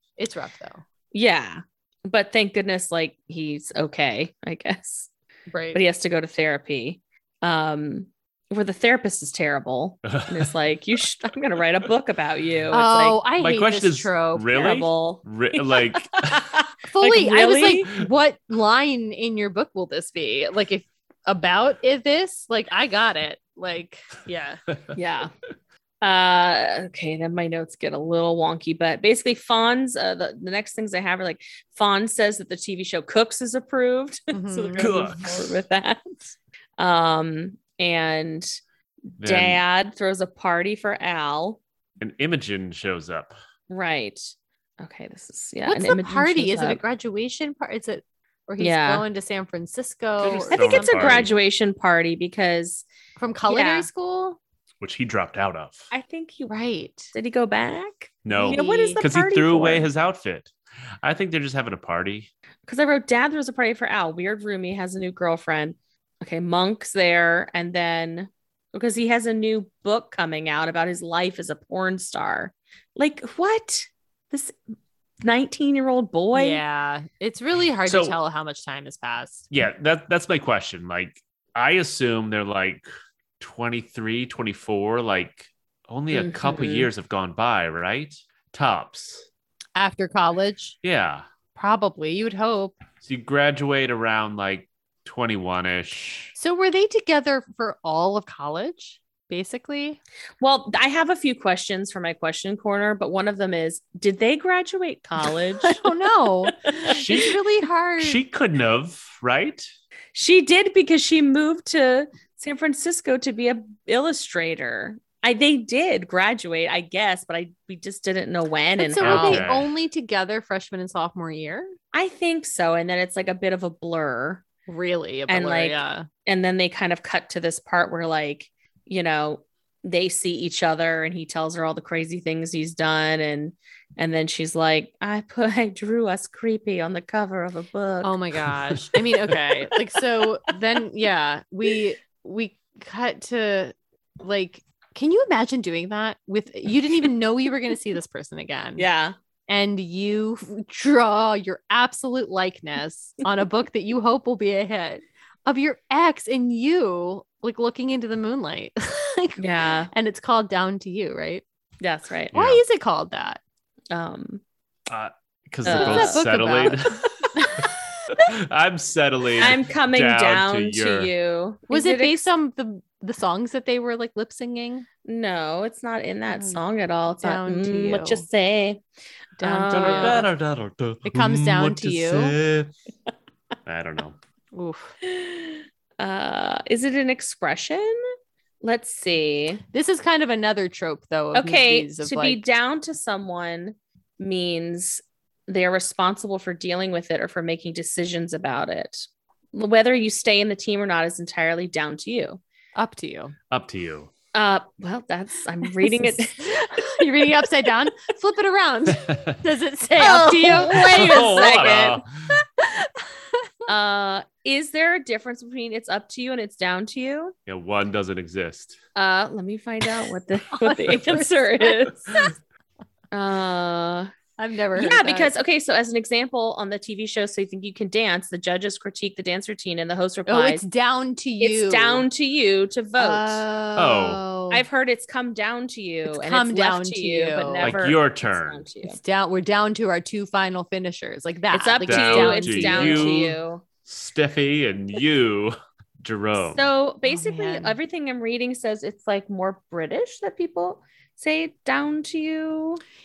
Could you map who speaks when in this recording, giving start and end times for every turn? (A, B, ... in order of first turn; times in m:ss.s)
0:00.2-0:00.8 A
0:01.1-0:05.1 B
0:05.5-0:05.8 A
0:05.7-0:13.2 B
0:10.1-0:10.4 C
0:12.7-0:14.7 A
0:13.4-0:16.4 C
0:14.5-0:17.9 B
0:16.9-0:24.6 A
0:25.0-0:25.3 B
0:26.0-0:38.5 B
0:34.3-0:35.1 A
0:34.8-0:35.5 C
0:39.2-0:41.6 B
0:39.2-0:39.6 C
0:42.0-0:43.4 C
0:43.7-0:46.8 B
0:45.7-0:51.3 A
0:48.6-0:49.0 B
0:50.2-0:52.8 B
0:50.5-0:51.3 C
0:53.2-0:54.4 A
0:53.5-0:53.9 B
0:54.8-0:55.9 C
0:55.9-0:56.5 B
0:56.5-0:57.1 A
0:57.1-0:59.9 B
0:58.3-1:02.3 C
0:58.4-0:59.0 A
1:02.7-1:14.6 B
1:15.2-1:16.6 B
1:16.3-1:19.5 A
1:17.8-1:18.2 C
1:19.5-1:22.9 C
1:23.4-1:29.3 C
1:26.1-1:26.9 B
1:29.8-1:30.8 A
1:30.8-1:31.3 C
1:31.6-1:32.8 A
1:33.0-1:36.1 C
1:36.3-1:40.0 A
1:40.4-1:45.8 B
1:45.6-1:48.2 A
1:46.7-1:47.0 B
1:46.8-1:47.4 C
1:48.0-1:49.7 C
1:50.1-1:59.4 B
1:58.8-2:01.7 A
1:59.0-1:59.7 C
2:01.9-2:04.4 B
2:04.7-2:06.1 A
2:05.3-2:18.2 B
2:18.0-2:28.9 A
2:28.8-2:29.2 B
2:29.5-2:41.4 A
2:39.4-2:39.9 B
2:41.8-2:42.3 B
2:42.3-2:42.6 C
2:42.3-2:43.4 A
2:43.9-2:44.4 B
2:44.9-2:51.1 C
2:45.6-2:47.7 A
2:45.7-2:46.2 B
2:49.4-2:52.2 B
2:51.7-2:54.9 A
2:55.0-2:58.8 B
2:56.3-2:56.6 A
2:57.2-2:58.2 A
2:59.4-3:00.3 A
2:59.4-3:00.3 B
2:59.7-3:02.7 C
3:01.0-3:02.4 A
3:03.7-3:04.2 C
3:04.5-3:05.0 A
3:05.1-3:08.0 B
3:08.6-3:09.6 B
3:09.7-3:12.4 A
3:11.3-3:22.4 B
3:22.8-3:23.4 A
3:23.5-3:24.1 C
3:24.3-3:26.6 B
3:25.8-3:31.7 A
3:29.1-3:29.4 C
3:30.0-3:32.0 B
3:30.8-3:32.0 C
3:32.4-3:33.5 A
3:33.7-3:37.4 B
3:37.5-3:38.8 C
3:39.0-3:42.2 B
3:40.5-3:42.3 A
3:43.1-3:44.1 B
3:44.4-3:45.3 A
3:44.8-3:50.7 B
3:50.3-3:52.1 A
3:51.4-3:53.5 B
3:53.0-3:54.6 A
3:53.8-3:54.2 C
3:54.5-3:59.0 B
3:56.1-3:57.8 A
3:57.6-3:58.6 C
3:58.8-4:03.3 A
4:01.5-4:03.6 B
4:01.9-4:06.6 C
4:06.5-4:12.8 B
4:07.1-4:07.8 A